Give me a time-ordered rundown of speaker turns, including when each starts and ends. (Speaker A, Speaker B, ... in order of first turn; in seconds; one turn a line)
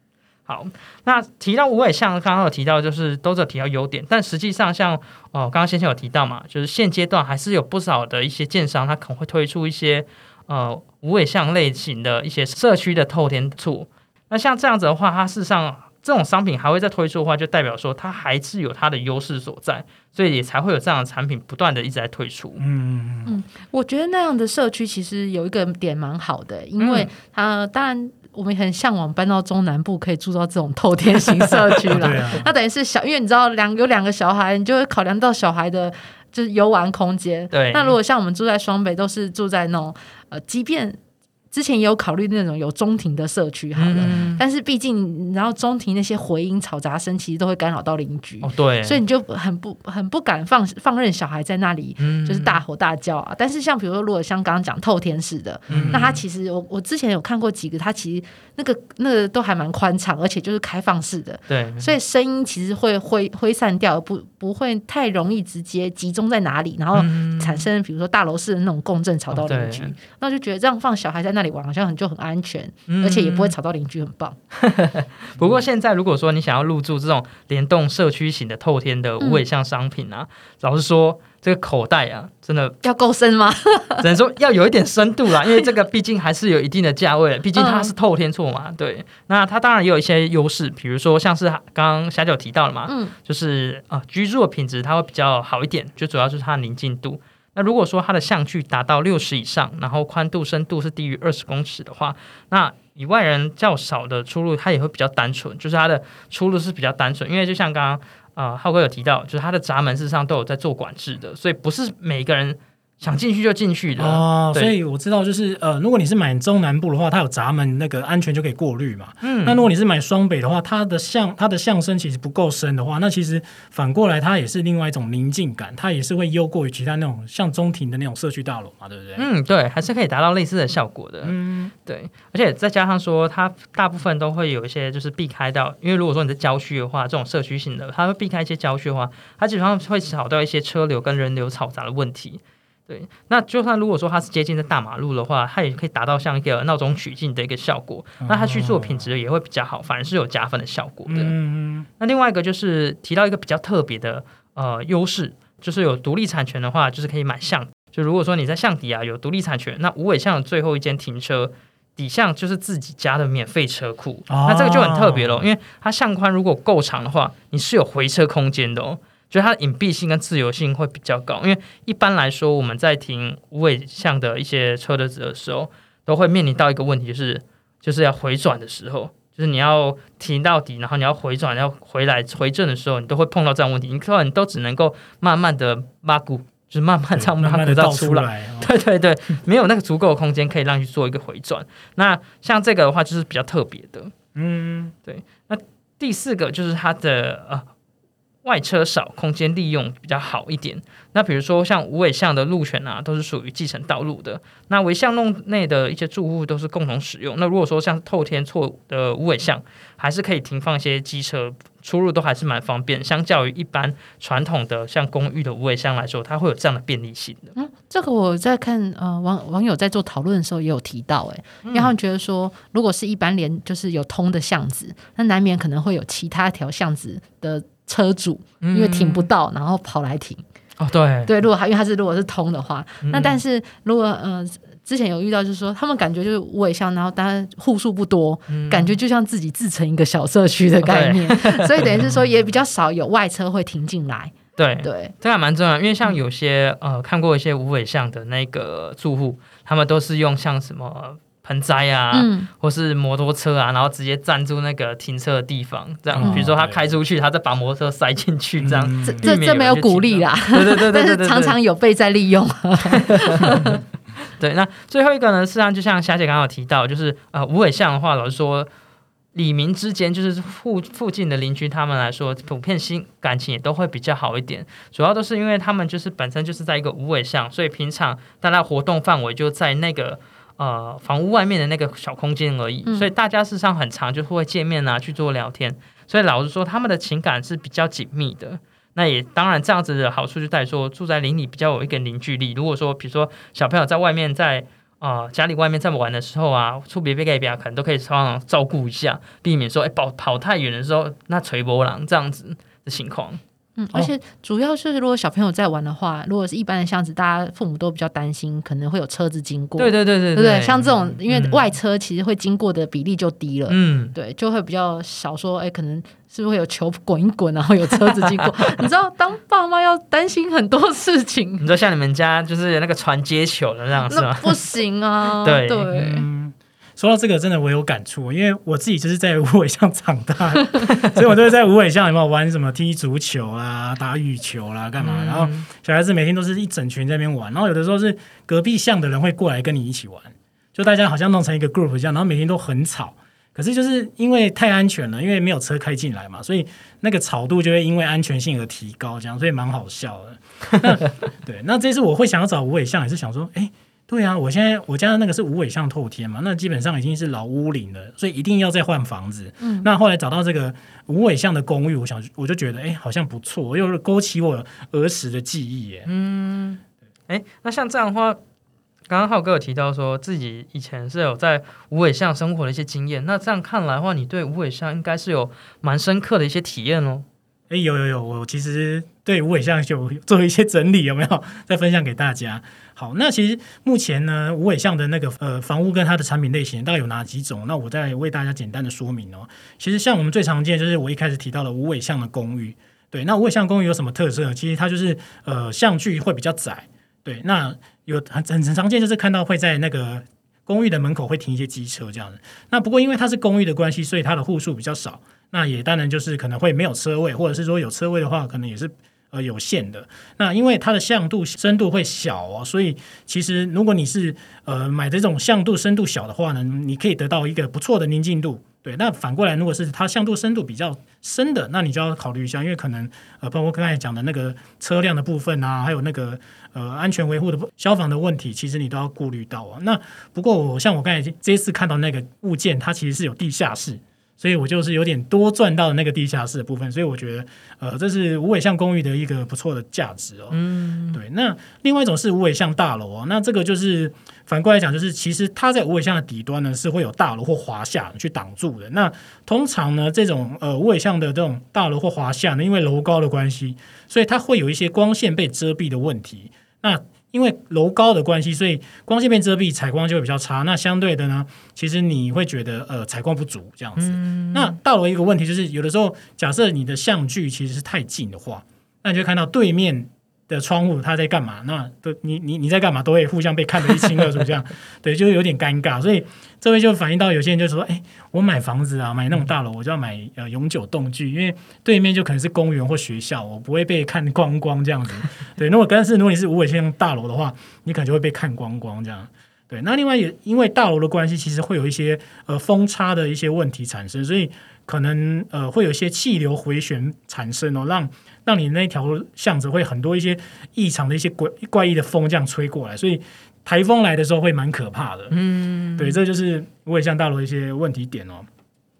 Speaker A: 0.5-22.6
Speaker B: 22.6-23.3
Speaker C: 23.2-41.0
Speaker B: 26.8-27.1
Speaker B: 31.9-32.5
Speaker A: 37.5-38.0
Speaker C: 41.5-74.4
Speaker A: 43.8-44.4
Speaker A: 48.4-49.0
Speaker A: 52.0-52.6
Speaker A: 55.7-56.1
Speaker B: 55.7-56.2
Speaker A: 61.5-61.9
Speaker A: 66.9-67.7
Speaker A: 69.3-69.9
Speaker A: 72.9-73.5
Speaker A: 74.6-82.8
Speaker C: 82.8-84.0
Speaker A: 84.0-114.7
Speaker C: 87.5-87.9
Speaker C: 92.9-93.1
Speaker B: 114.0-129.3
Speaker A: 119.2-119.6
Speaker A: 129.2-131.3
Speaker B: 131.2-131.7
Speaker A: 131.9-151.3
Speaker B: 148.2-149.1
Speaker B: 151.1-151.9
Speaker A: 152.0-194.1
Speaker B: 164.3-165.4
Speaker B: 187.1-188.7
Speaker B: 194.3-194.9
Speaker A: 195.1-197.7
Speaker A: 198.4-217.5
Speaker C: 217.6-230.4
Speaker A: 221.6-221.9
Speaker A: 228.6-229.3
Speaker A: 230.8-231.3
Speaker C: 231.2-245.1
Speaker A: 233.0-233.4
Speaker A: 238.5-238.9
Speaker A: 240.8-241.9
Speaker A: 244.6-261.6
Speaker C: 252.1-252.5
Speaker B: 256.1-256.8
Speaker C: 256.2-256.5
Speaker B: 258.6-259.3
Speaker C: 259.0-263.8
Speaker A: 263.1-263.5
Speaker A: 264.4-268.7
Speaker A: 269.3-303.4
Speaker C: 303.8-321.6
Speaker A: 309.8-311.6
Speaker A: 313.7-314.1
Speaker A: 321.6-324.7
Speaker C: 324.1-326.2
Speaker A: 325.4-325.9
Speaker B: 325.9-366.1
Speaker A: 335.0-335.7
Speaker C: 359.6-359.9
Speaker A: 366.1-368.4
Speaker A: 369.1-377.2
Speaker B: 377.7-505.4
Speaker A: 440.5-441.2
Speaker A: 464.0-464.8
Speaker A: 505.3-506.2
Speaker B: 506.0-508.5